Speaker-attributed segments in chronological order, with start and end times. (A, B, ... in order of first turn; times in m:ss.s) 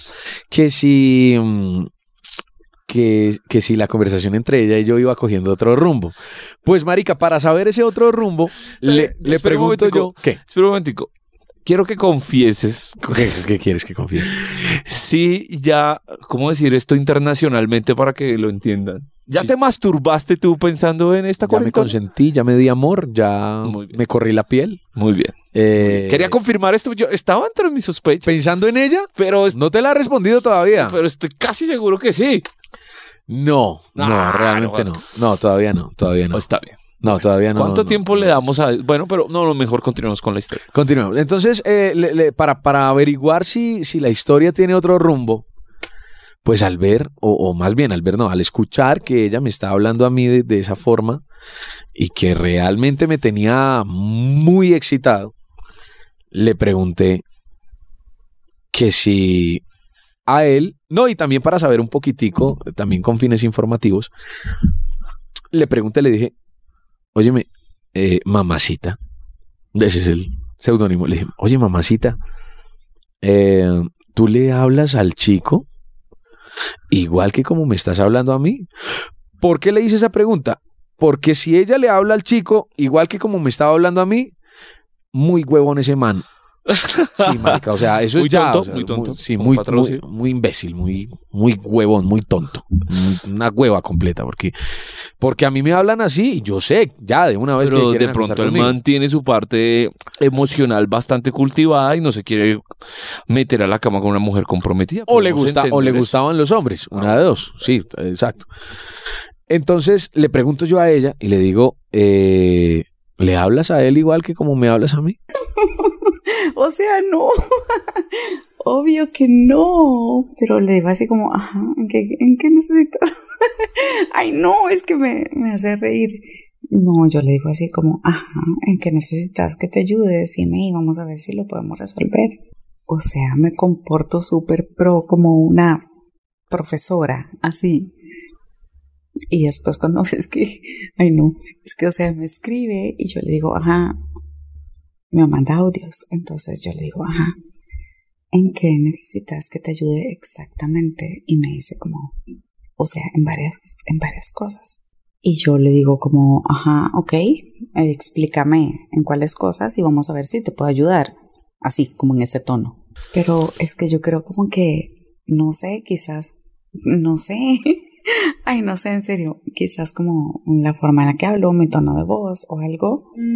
0:00.5-0:01.9 A
0:02.9-0:10.4 A
0:08.8-0:11.1 B
0:11.6-0:13.4 B
0:13.0-0:14.3 A
0:14.2-0:21.9 B
0:21.4-0:24.8 A
0:23.6-0:24.0 B
0:25.0-0:28.4 B
0:25.5-0:26.4 A
0:28.2-0:31.0 A
0:29.2-0:29.6 B
0:30.7-0:32.4 B
0:33.3-0:36.4 A
0:34.0-0:35.0 B
0:36.3-0:40.7 B
0:37.0-0:38.4 A
0:40.7-0:45.4 A
0:46.4-0:51.2 A
0:52.0-0:55.3 A
0:56.3-0:57.2 A
0:58.7-0:59.6 A
1:00.3-1:04.1 A
1:05.5-1:06.3 A
1:07.1-1:09.0 A
1:09.7-1:12.2 A
1:13.2-1:15.6 A
1:16.9-1:18.7 A
1:19.4-1:24.3 A
1:25.1-1:26.2 A
1:26.7-1:27.6 B
1:27.2-1:34.5 A
1:28.1-1:30.0 B
1:35.2-1:38.8 A
1:37.6-1:42.6 B
1:43.3-1:46.1 B
1:45.1-1:48.5 A
1:46.9-1:47.2 B
1:49.5-1:55.2 A
1:55.6-2:15.9 C
2:16.5-2:17.9 C
2:19.3-2:24.0 C
2:25.1-2:27.4 C
2:28.3-2:32.2 C
2:32.8-2:53.1 C